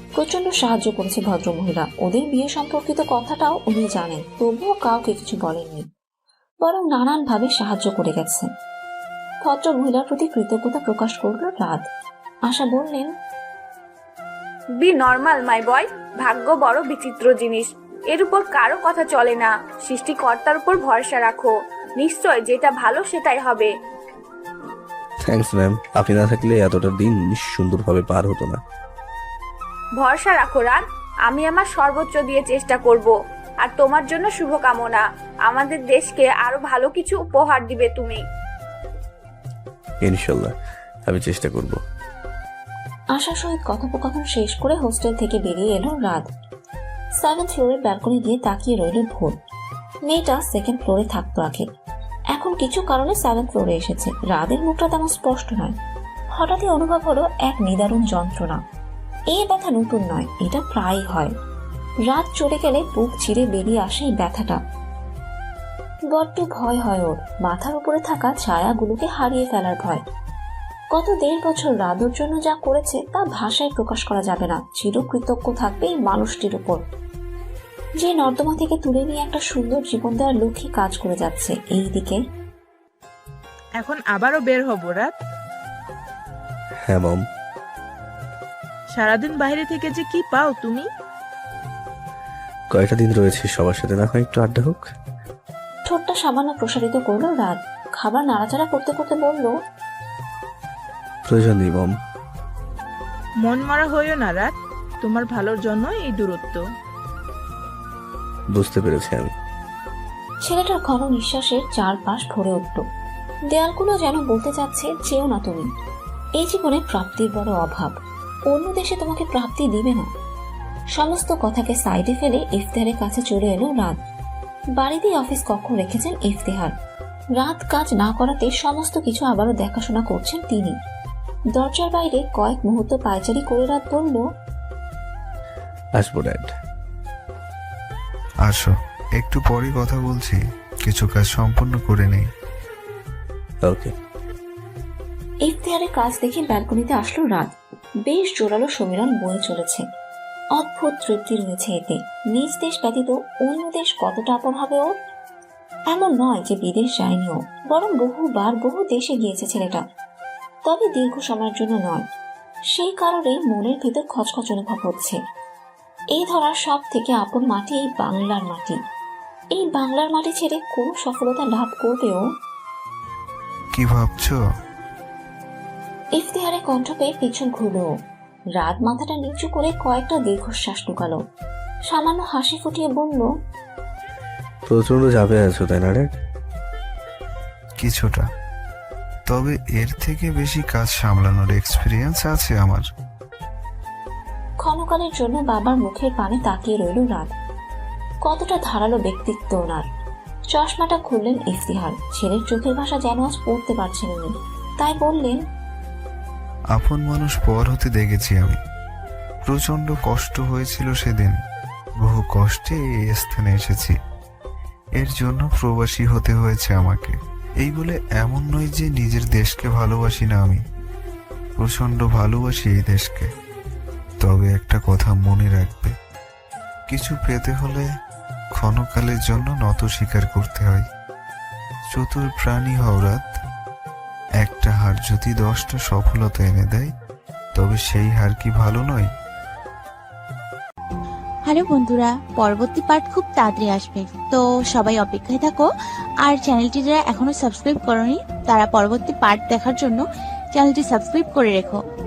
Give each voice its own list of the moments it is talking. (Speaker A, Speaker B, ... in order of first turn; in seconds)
Speaker A: 0.2-5.8, 6.6-8.5, 9.4-11.8, 12.5-13.1, 43.1-46.3, 47.2-49.4, 50.1-51.6, 52.4-55.8, 56.3-58.6, 59.3-61.3, 62.1-64.6, 66.1-70.0, 70.9-76.8, 78.0-82.2, 95.9-99.5, 110.4-112.8, 113.5-115.7, 116.4-117.9, 118.5-120.1, 121.0-124.0, 124.8-126.7, 127.4-130.8, 131.6-134.2, 145.5-147.5, 148.1-149.8, 150.6-154.9, 155.9-159.8, 160.7-162.1, 162.7-165.2, 166.1-168.8, 169.5-172.2, 176.2-177.9, 178.6-181.2, 181.9-183.3, 194.6-197.3, 198.2-199.9, 200.5-205.4
Speaker B: 14.8-23.7, 30.0-38.2
Speaker C: 25.3-28.6, 40.0-40.5, 41.1-41.8, 86.9-87.2, 92.7-94.8, 101.3-101.9, 108.5-109.3, 136.0-136.5, 143.6-143.9, 184.7-186.1
Speaker D: 83.8-85.1, 88.9-90.9, 103.4-106.6
Speaker E: 138.4-142.2, 173.7-174.4, 187.8-188.2, 189.3-192.8, 206.7-208.6, 209.4-211.4, 212.0-213.9, 215.0-220.6, 221.6-223.3, 224.2-225.9, 226.9-227.8, 228.6-230.8, 231.9-233.3, 234.4-236.9, 237.6-239.1
Speaker F: 241.5-245.7, 246.2-250.0, 250.5-251.8